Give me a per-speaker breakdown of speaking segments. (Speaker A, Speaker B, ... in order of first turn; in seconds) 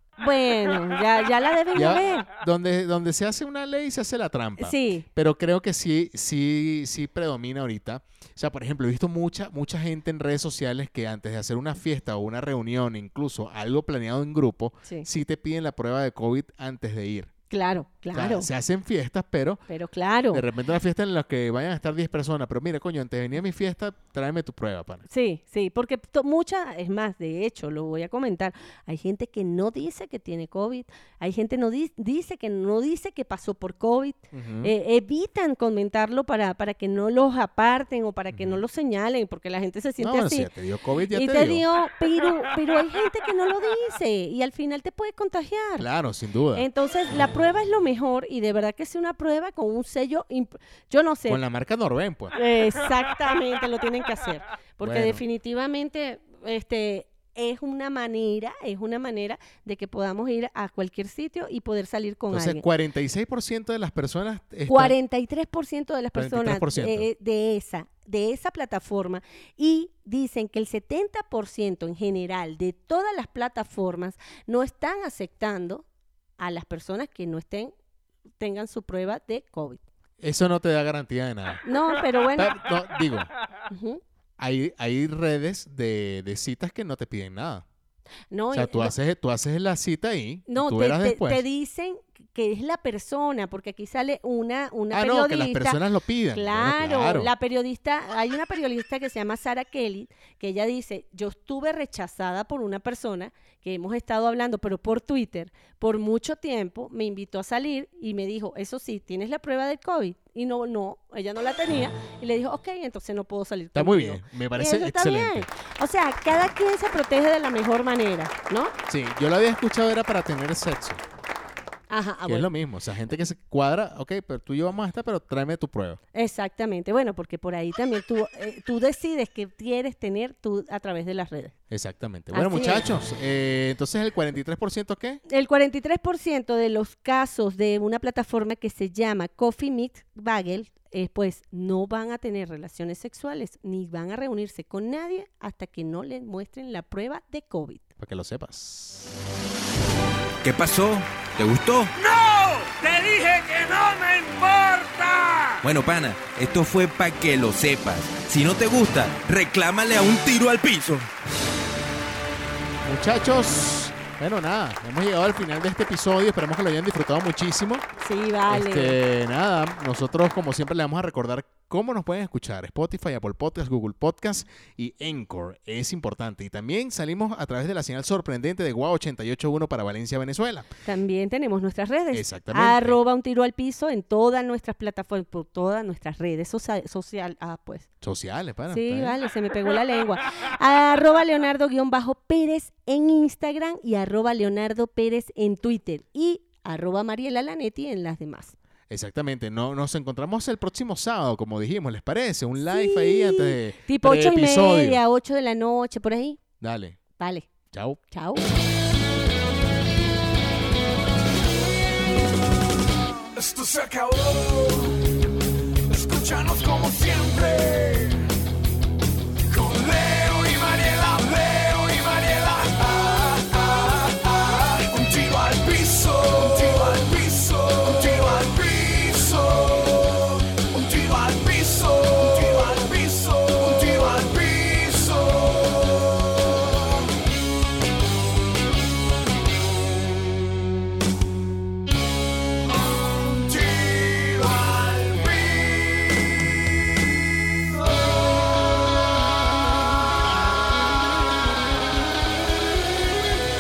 Speaker A: 0.2-2.3, 4.6-5.1, 17.5-18.5, 19.7-20.4, 25.1-40.5, 41.1-45.9, 46.5-51.4, 52.4-62.6, 64.7-75.8, 76.4-77.7, 78.4-79.8, 81.6-82.5, 83.7-84.0, 88.3-89.0, 90.5-95.8, 96.3-118.7, 121.9-122.5, 126.1-131.5, 132.3-132.9, 135.3-147.8, 168.0-169.0, 180.8-187.9, 188.7-198.6, 202.7-206.4, 207.2-207.5, 208.1-208.5
Speaker B: 1.7-17.3, 18.1-19.6, 20.3-25.1, 34.3-34.7, 38.3-38.6, 40.0-41.6, 45.8-46.7, 51.3-52.4, 54.8-55.2, 62.3-65.0, 66.2-67.1, 80.2-81.6, 82.3-83.3, 84.4-87.7, 88.5-91.4, 94.9-97.3, 113.8-115.5, 118.9-121.0, 122.3-126.0, 131.7-135.2, 148.0-149.1, 162.8-167.8, 168.5-180.7, 182.1-183.0, 188.0-189.2, 198.9-205.0, 206.6-207.0, 207.7-208.0
Speaker C: 150.4-151.9, 155.6-161.1
Speaker D: 151.9-155.6
Speaker E: 213.3-215.0, 215.9-218.3, 219.4-236.3, 242.8-246.0, 247.8-248.1